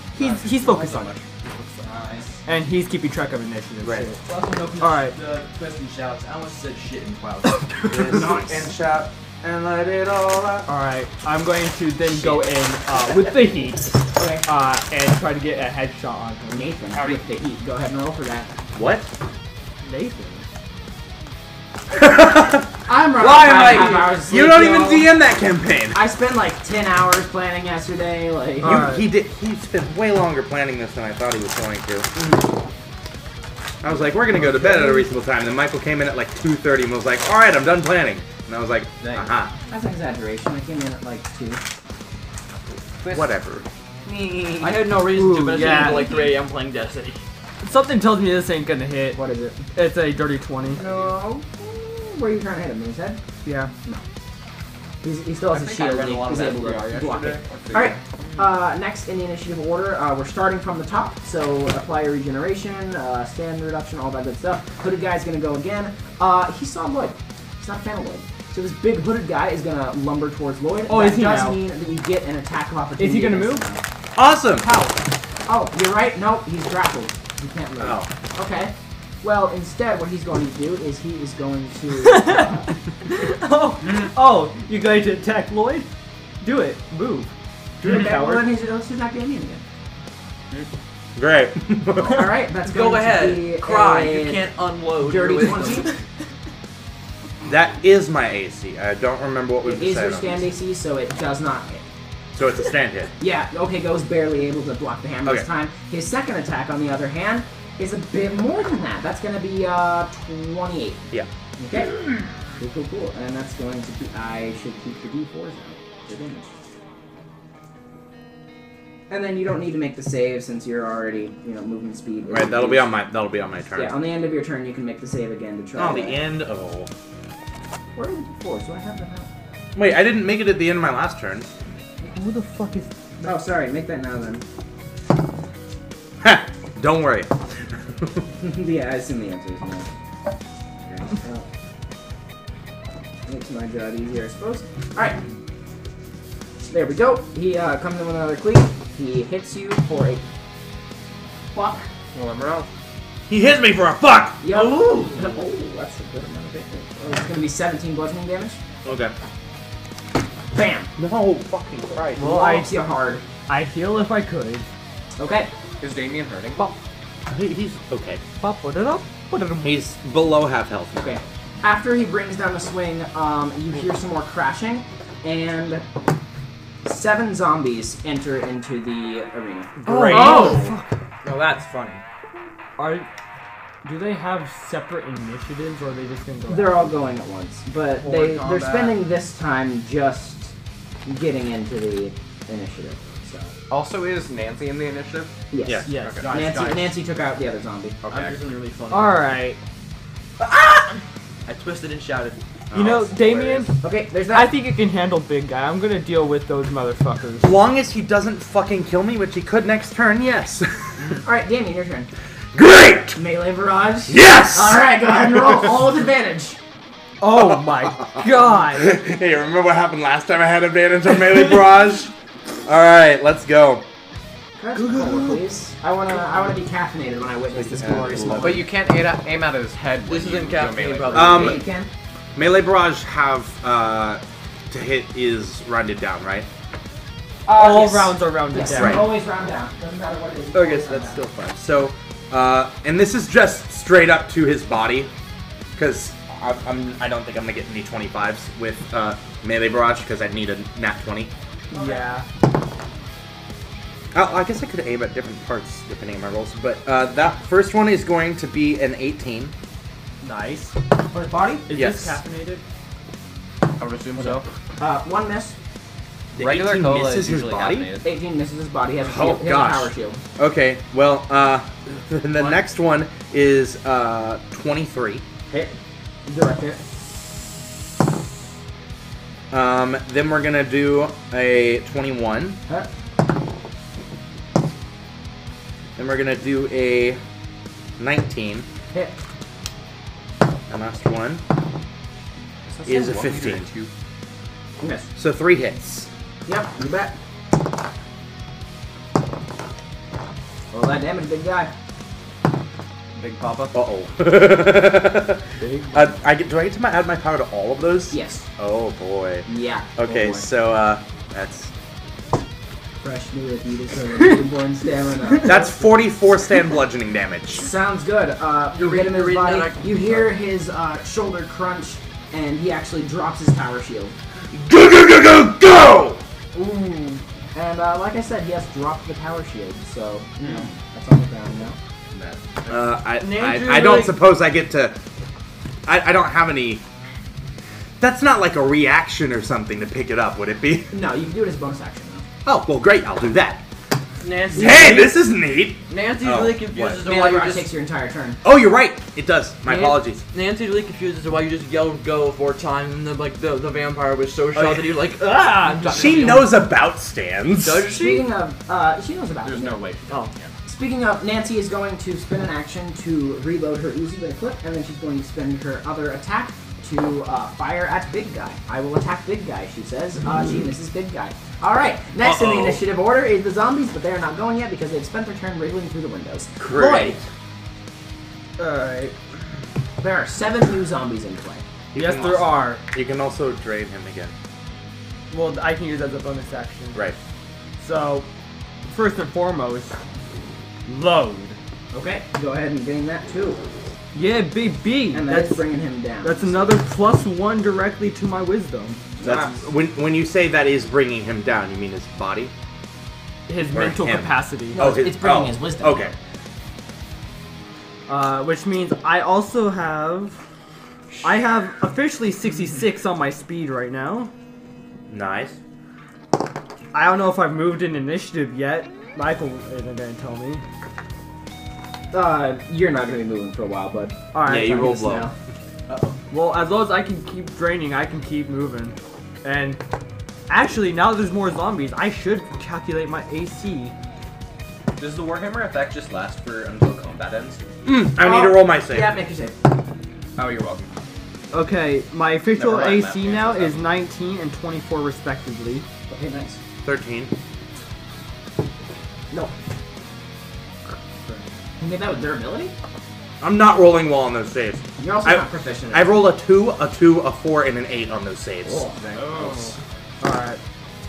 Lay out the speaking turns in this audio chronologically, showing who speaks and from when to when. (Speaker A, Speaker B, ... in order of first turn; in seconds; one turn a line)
Speaker A: 0.2-1.2
Speaker B: 0.2-2.4
Speaker A: 2.5-4.2
Speaker C: 3.8-4.1
Speaker D: 4.2-8.3
Speaker A: 4.8-5.2
Speaker C: 7.9-10.7
Speaker E: 8.1-8.7
Speaker A: 10.7-16.8
Speaker E: 14.2-14.4
Speaker E: 16.5-18.5
Speaker C: 18.7-19.1
Speaker A: 19.8-20.4
Speaker C: 21.9-26.0
Speaker E: 22.9-25.1
Speaker D: 23.2-24.1
Speaker E: 25.9-28.9
Speaker A: 28.6-29.1
Speaker C: 28.6-32.1
Speaker E: 32.1-32.5
Speaker C: 33.8-39.5
Speaker E: 34.4-35.0
Speaker B: 39.0-39.3
Speaker E: 39.7-41.6
Speaker B: 43.0-43.5
Speaker C: 43.1-43.6
Speaker D: 44.6-47.2
Speaker A: 44.9-46.2
Speaker A: 47.6-49.2
Speaker E: 49.1-49.6
Speaker A: 49.7-50.9
Speaker E: 50.7-53.2
Speaker B: 50.9-51.1
Speaker A: 53.4-53.7
Speaker E: 55.0-73.8
Speaker B: 55.5-58.0
Speaker A: 70.9-71.6
Speaker A: 73.0-73.7
Speaker C: 74.2-74.7
Speaker A: 74.7-74.9
Speaker E: 75.5-82.7
Speaker C: 77.8-78.1
Speaker A: 81.9-85.9
Speaker A: 86.4-87.3
Speaker E: 87.8-89.6
Speaker A: 87.8-88.5
Speaker C: 91.2-92.3
Speaker E: 92.0-96.0
Speaker D: 92.7-96.0
Speaker C: 97.5-100.4
Speaker E: 99.6-101.9
Speaker C: 102.3-103.1
Speaker E: 103.2-112.0
Speaker E: 112.6-116.5
Speaker E: 119.1-123.0
Speaker C: 122.3-124.0
Speaker E: 123.7-126.2
Speaker C: 125.8-126.9
Speaker E: 128.0-129.3
Speaker C: 129.8-131.5
Speaker A: 132.0-133.3
Speaker E: 133.2-134.4
Speaker C: 136.2-137.3
Speaker E: 138.4-139.9
Speaker E: 140.8-141.5
Speaker E: 143.3-145.2
Speaker E: 146.7-150.2
Speaker E: 151.5-151.9
Speaker B: 152.1-152.7
Speaker C: 153.3-154.4
Speaker E: 154.4-158.6
Speaker C: 158.8-159.1
Speaker E: 160.5-160.9
Speaker C: 161.0-162.3
Speaker A: 162.2-162.8
Speaker E: 162.2-163.2
Speaker A: 163.5-164.7
Speaker E: 165.2-165.5
Speaker B: 165.8-166.7
Speaker C: 167.3-168.2
Speaker A: 168.4-169.8
Speaker C: 169.6-171.2
Speaker E: 171.0-175.9
Speaker E: 176.8-180.4
Speaker A: 179.8-180.9
Speaker C: 179.9-180.6
Speaker D: 180.1-180.7
Speaker D: 181.2-182.0
Speaker A: 182.8-183.1
Speaker A: 183.8-186.9
Speaker E: 186.5-190.5
Speaker B: 188.0-189.0
Speaker E: 191.1-193.5
Speaker B: 193.7-195.3
Speaker E: 195.5-198.0
Speaker A: 195.9-196.5
Speaker B: 195.9-196.9
Speaker D: 198.1-199.4
Speaker A: 198.9-199.6
Speaker D: 200.5-200.8
Speaker D: 201.5-202.4
Speaker C: 202.7-203.1
Speaker A: 202.7-203.8
Speaker B: 202.9-203.7
Speaker E: 203.8-204.6
Speaker A: 204.3-207.5
Speaker C: 207.4-210.8
Speaker E: 211.2-212.1
Speaker C: 212.5-213.2
Speaker E: 213.2-216.6
Speaker C: 214.1-214.9
Speaker A: 217.2-218.9
Speaker C: 218.0-222.1
Speaker C: 222.7-223.8
Speaker E: 224.6-228.7
Speaker C: 227.5-228.7
Speaker B: 228.3-231.6
Speaker D: 230.1-231.6
Speaker C: 231.1-231.6
Speaker E: 231.2-231.9
Speaker C: 232.3-236.5
Speaker E: 237.5-241.2
Speaker A: 237.5-239.1
Speaker C: 238.7-239.1
Speaker D: 240.9-241.3
Speaker C: 241.5-245.1
Speaker C: 245.8-251.3
Speaker E: 251.7-252.1
Speaker A: 251.7-252.3
Speaker C: 254.1-259.5
Speaker A: 260.2-260.8
Speaker E: 261.1-261.7
Speaker A: 261.7-262.6
Speaker C: 261.7-262.2
Speaker D: 263.8-264.4
Speaker B: 263.8-264.4
Speaker E: 264.8-265.6
Speaker C: 266.4-267.9
Speaker B: 266.4-268.1
Speaker E: 268.0-270.2
Speaker C: 269.1-275.2
Speaker E: 275.5-275.8
Speaker E: 276.3-276.9
Speaker C: 279.5-282.6
Speaker C: 286.0-287.2
Speaker C: 288.0-288.7
Speaker C: 290.7-291.4
Speaker B: 292.7-293.9
Speaker C: 292.9-293.7
Speaker E: 294.8-295.1
Speaker C: 295.2-296.1
Speaker E: 296.5-297.1
Speaker E: 300.7-301.7
Speaker B: 303.1-303.8
Speaker C: 303.7-311.7
Speaker A: 305.6-305.9
Speaker E: 308.1-308.5
Speaker E: 309.5-310.5
Speaker E: 313.0-316.1
Speaker C: 315.4-317.7
Speaker E: 317.6-324.1
Speaker D: 318.7-320.2
Speaker C: 324.5-326.2
Speaker E: 327.5-331.8
Speaker B: 332.1-332.9
Speaker C: 332.7-335.0
Speaker A: 333.2-334.1
Speaker C: 335.9-336.8
Speaker C: 338.0-340.9
Speaker E: 340.9-342.2
Speaker C: 342.4-343.6
Speaker D: 344.2-345.1
Speaker C: 344.5-347.0
Speaker E: 344.6-345.0
Speaker D: 345.9-347.7
Speaker E: 347.0-348.4
Speaker C: 348.4-350.2
Speaker D: 349.7-356.5
Speaker C: 354.6-355.0
Speaker A: 355.3-356.4
Speaker C: 355.9-357.9
Speaker D: 357.6-358.3
Speaker E: 357.9-359.8
Speaker B: 359.4-360.5
Speaker E: 360.7-377.2
Speaker C: 372.2-372.8
Speaker C: 376.6-377.3
Speaker A: 378.6-379.1
Speaker E: 380.0-381.6
Speaker C: 381.9-384.3
Speaker A: 381.9-382.8
Speaker A: 385.3-387.0
Speaker A: 387.8-388.3
Speaker A: 388.9-390.0
Speaker A: 390.9-391.6
Speaker E: 391.9-393.6
Speaker A: 394.1-395.7
Speaker E: 395.1-396.7
Speaker A: 396.2-399.1
Speaker E: 399.2-399.6
Speaker C: 399.2-402.5
Speaker A: 403.5-405.0
Speaker C: 403.7-406.1
Speaker E: 404.7-406.1
Speaker A: 408.1-410.4
Speaker A: 411.2-414.3
Speaker C: 415.1-415.6
Speaker A: 416.9-420.6
Speaker E: 422.1-425.3
Speaker A: 424.3-425.1
Speaker C: 424.4-425.3
Speaker B: 425.9-426.2
Speaker A: 426.3-429.8
Speaker A: 430.5-433.9
Speaker B: 435.0-437.7
Speaker C: 437.9-439.1
Speaker E: 438.1-439.6
Speaker B: 440.4-440.9
Speaker A: 441.5-445.9
Speaker B: 442.5-444.0
Speaker E: 446.1-446.6
Speaker C: 446.8-447.3
Speaker E: 451.8-452.7
Speaker C: 453.4-458.9
Speaker E: 455.0-456.2
Speaker E: 458.7-459.0
Speaker B: 459.0-459.8
Speaker A: 460.2-460.6